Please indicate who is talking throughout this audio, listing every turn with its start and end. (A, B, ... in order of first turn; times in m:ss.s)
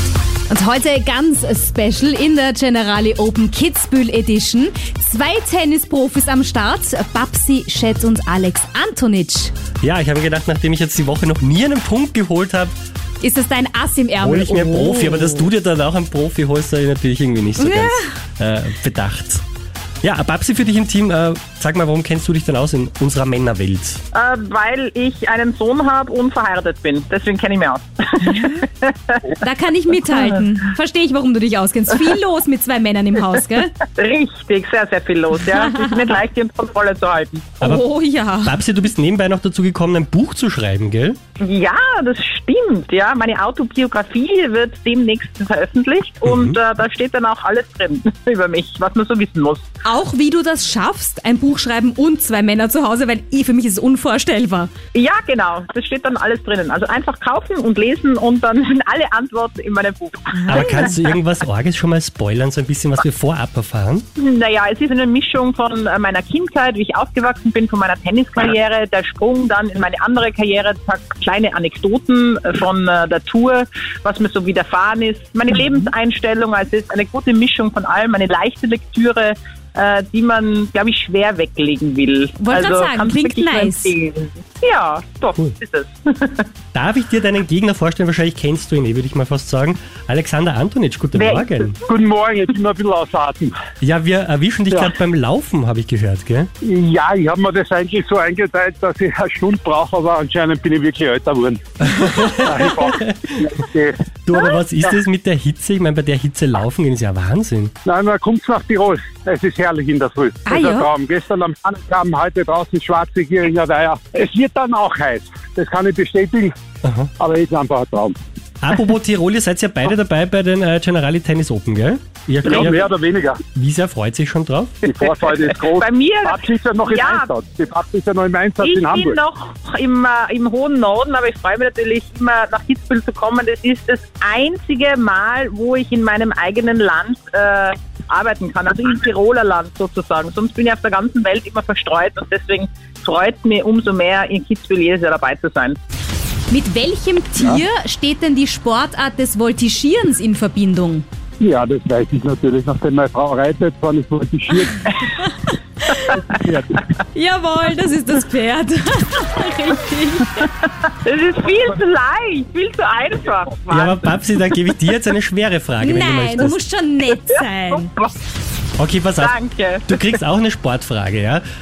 0:00.5-0:09.5 A
0:09.8-0:12.7 B
0:13.2-0:15.5 A
0:14.2-0:19.4 B
0:17.6-0:18.1 A
0:20.0-0:24.0 B
0:24.1-0:29.3 C
0:28.3-0:28.6 A
0:29.4-0:33.7 A
0:33.9-0:37.6 C
0:35.5-0:36.0 A
0:37.6-0:37.9 B
0:37.6-0:38.6 A
0:38.4-0:41.2 B
0:41.4-0:49.7 C
0:46.2-0:46.6 B
0:49.8-0:54.7 A
0:54.9-1:01.0 C
1:00.4-1:00.7 A
1:00.5-1:04.1 B
1:04.2-1:26.5 C
1:22.4-1:24.0 A
1:26.7-1:31.8 B
1:31.1-1:31.7 C
1:31.8-1:33.6 D
1:33.8-1:36.5 B
1:36.6-1:44.6 D
1:41.9-1:43.3 B
1:44.3-1:47.7 B
1:47.8-1:56.5 D
1:50.5-1:50.9 A
1:56.8-1:57.1 B
1:57.2-1:58.2 D
1:58.6-2:02.8 B
2:02.4-2:03.4 D
2:02.5-2:02.8 C
2:03.6-2:04.9 B
2:04.8-2:09.2 D
2:05.2-2:07.3 C
2:08.6-2:25.8 C
2:26.5-2:31.0 A
2:31.4-2:35.0 D
2:35.9-2:36.2 A
2:36.0-2:36.9 D
2:37.1-2:40.5 A
2:41.0-2:44.1 C
2:43.7-2:46.6 B
2:45.8-2:47.9 A
2:47.3-2:48.2 C
2:48.8-2:51.4 B
2:49.2-2:50.1 C